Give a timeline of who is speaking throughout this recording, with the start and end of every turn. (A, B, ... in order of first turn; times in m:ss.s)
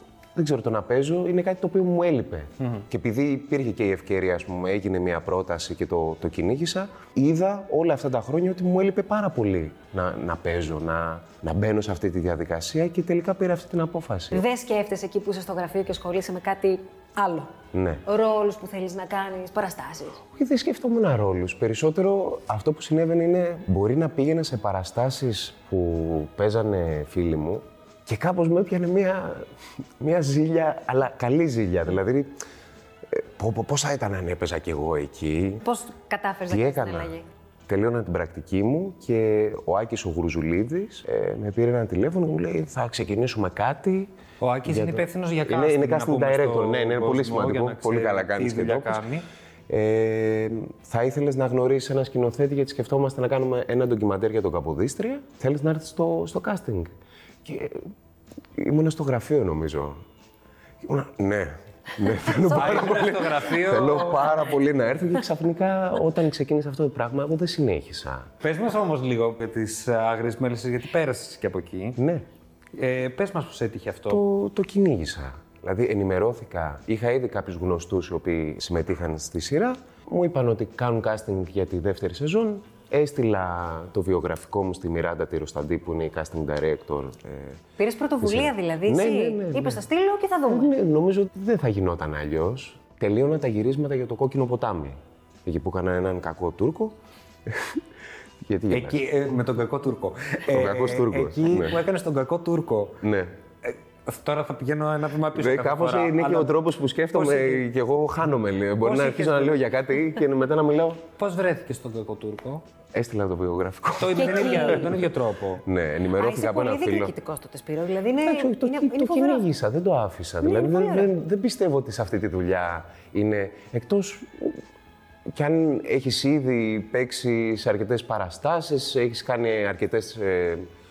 0:00.3-0:14.4 A
0:14.3-0:17.5 B
0:17.7-0:18.0 A
0:18.0-0:20.2 B
0:20.3-0:29.4 A
0:30.0-0:32.4 A
0:33.1-0:35.6 A
0:35.6-0:37.2 B
0:36.5-0:37.1 A
0:37.7-0:44.1 A
0:44.4-0:49.2 C
0:44.6-0:49.0 A
0:49.7-0:56.9 A
0:57.4-0:57.9 A
0:58.6-1:00.0 A
1:00.8-1:08.3 A
1:02.2-1:03.0 B
1:02.5-1:04.5 C
1:03.8-1:04.2 B
1:08.4-1:12.0 C
1:12.0-1:12.2 A
1:12.7-1:14.2 C
1:14.1-1:27.6 A
1:27.8-1:30.7 B
1:28.2-1:29.8 A
1:30.5-1:37.8 A
1:38.4-1:39.0 A
1:38.7-1:43.0 C
1:40.5-1:41.8 A
1:43.0-1:43.3 A
1:43.6-1:46.5 C
1:45.3-1:51.0 A
1:47.1-1:47.6 C
1:48.8-1:49.6 C
1:51.2-1:52.6 C
1:52.9-1:55.1 A
1:54.0-1:55.6 C
1:54.1-1:54.9 B
1:55.6-1:57.1 A
1:56.2-1:59.5 B
1:58.2-2:04.6 A
2:00.4-2:01.1 B
2:05.3-2:10.7 A